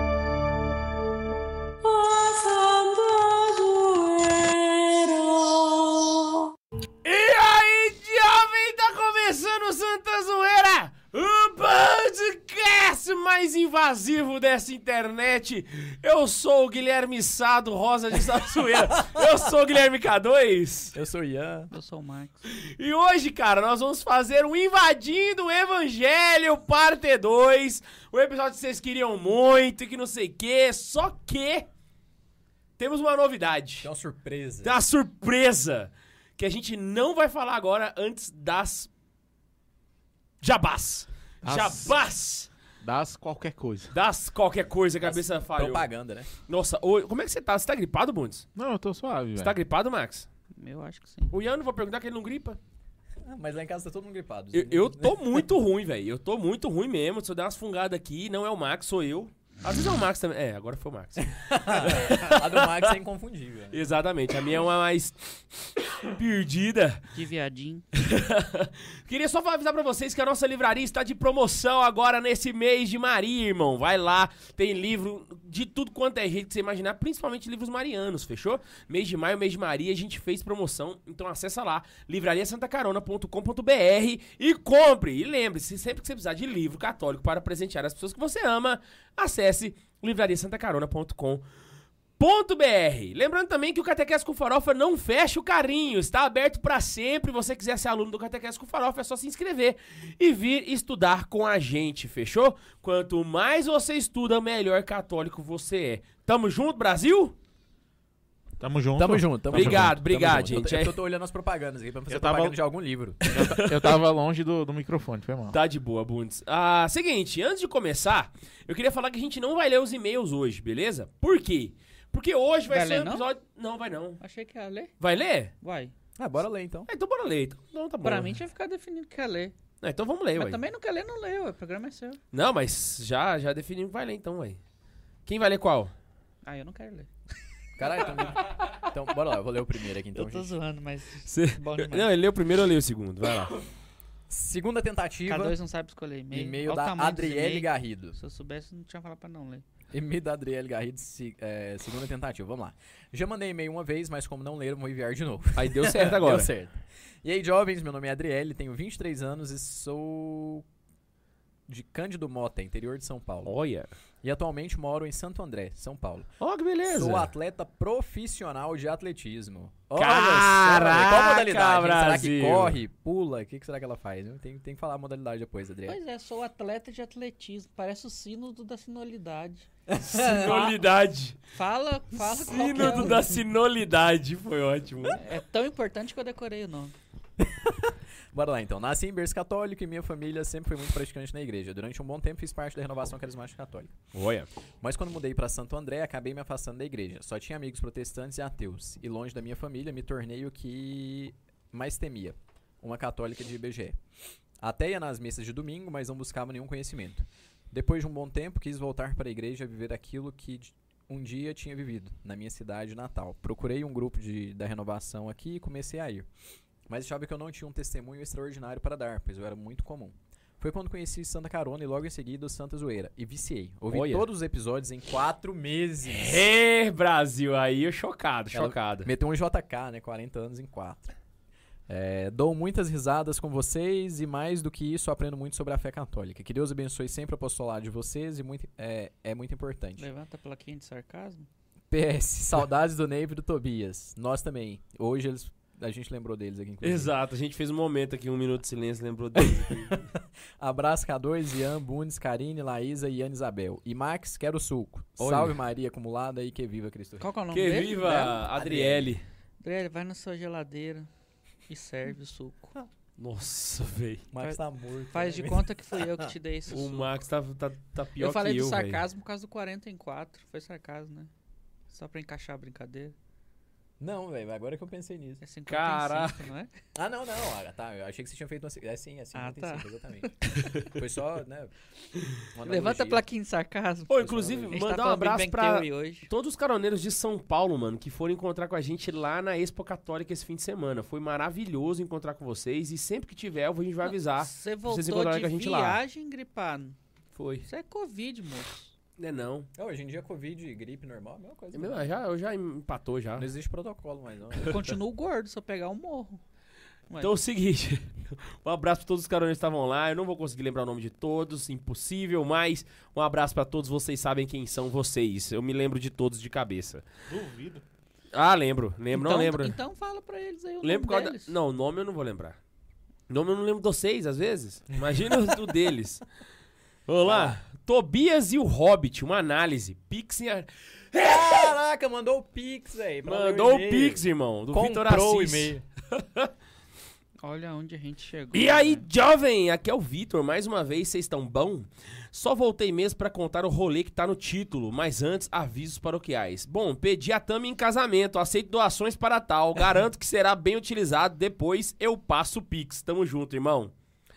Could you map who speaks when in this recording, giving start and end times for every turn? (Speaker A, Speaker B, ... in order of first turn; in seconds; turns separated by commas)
Speaker A: 1.8-6.4, Speaker B: 7.0-20.9, Speaker C: 20.9-21.7, Speaker D: 21.7-22.4, Speaker B: 22.5-31.7, Speaker B: 32.8-33.9, Speaker C: 33.8-34.8, Speaker B: 34.6-38.9, Speaker B: 40.4-42.5, Speaker E: 41.4-41.9, Speaker E: 42.8-43.9, Speaker B: 43.9-45.9, Speaker C: 45.0-46.3, Speaker B: 46.4-48.5, Speaker E: 48.5-49.5, Speaker B: 49.4-50.3, Speaker D: 50.6-51.3, Speaker B: 51.3-52.6, Speaker C: 53.2-55.4, Speaker B: 54.5-62.9, Speaker C: 61.3-63.8, Speaker B: 63.7-67.1, Speaker D: 67.1-67.8, Speaker B: 67.9-91.4, Speaker B: 92.2-107.3, Speaker E: 108.6-110.0, Speaker C: 109.0-113.5, Speaker B: 109.5-111.0, Speaker E: 112.1-112.5, Speaker E: 113.2-115.6, Speaker B: 113.3-114.0, Speaker B: 115.5-124.2, Speaker D: 122.7-123.2, Speaker D: 124.2-124.9, Speaker B: 125.0-125.5, Speaker D: 125.6-125.9, Speaker C: 126.2-126.9, Speaker B: 126.9-128.3, Speaker D: 128.0-129.5, Speaker B: 129.8-130.6, Speaker D: 130.3-132.2, Speaker B: 132.3-134.6, Speaker B: 135.2-135.9, Speaker D: 136.4-137.1, Speaker C: 137.8-140.5, Speaker D: 140.1-142.1, Speaker B: 141.3-143.6, Speaker C: 144.3-145.6, Speaker D: 145.3-149.6, Speaker C: 146.3-148.2, Speaker C: 149.9-160.7, Speaker B: 155.6-156.5, Speaker C: 161.7-163.5, Speaker B: 163.4-163.9, Speaker C: 164.2-166.3, Speaker B: 166.4-167.3, Speaker C: 166.8-176.0, Speaker B: 169.9-172.8, Speaker D: 175.8-180.8, Speaker C: 179.9-180.7, Speaker B: 180.1-181.4, Speaker D: 181.5-183.3, Speaker B: 182.1-185.2, Speaker D: 185.2-186.9, Speaker C: 187.4-194.0, Speaker B: 194.1-194.5, Speaker C: 194.8-204.0, Speaker C: 204.6-216.3, Speaker C: 216.9-226.4, Speaker B: 223.9-224.3, Speaker B: 226.0-229.1, Speaker C: 228.5-231.1, Speaker C: 231.9-240.0, Speaker D: 240.0-241.5, Speaker C: 241.9-247.1, Speaker B: 246.8-250.1, Speaker C: 249.4-249.9, Speaker C: 250.6-257.2, Speaker B: 255.2-255.6, Speaker D: 257.2-258.4, Speaker B: 257.5-259.2, Speaker C: 258.4-259.2, Speaker D: 259.6-261.1, Speaker D: 261.7-262.8, Speaker B: 263.2-264.2, Speaker C: 264.3-266.0, Speaker D: 265.1-267.1, Speaker B: 266.7-269.0, Speaker D: 268.2-271.3, Speaker D: 271.9-273.1, Speaker C: 274.0-275.4, Speaker D: 275.4-276.7, Speaker B: 275.7-276.5, Speaker C: 276.9-280.3, Speaker D: 279.3-280.3, Speaker C: 280.8-281.7, Speaker C: 282.5-283.2, Speaker D: 282.6-286.3, Speaker B: 284.1-296.0, Speaker C: 284.2-284.8, Speaker D: 294.0-296.9, Speaker B: 297.3-297.7, Speaker D: 297.7-298.9, Speaker B: 299.2-299.7, Speaker C: 299.8-302.1, Speaker B: 301.7-303.5, Speaker C: 303.4-305.0, Speaker D: 304.6-306.4, Speaker B: 307.2-317.0, Speaker E: 317.3-317.8, Speaker B: 318.3-319.8, Speaker D: 319.1-321.5, Speaker B: 320.8-322.6, Speaker B: 323.3-326.2, Speaker B: 327.1-331.7, Speaker C: 327.2-327.6, Speaker C: 331.1-335.8, Speaker B: 333.2-336.5, Speaker D: 337.4-339.1, Speaker B: 338.5-353.9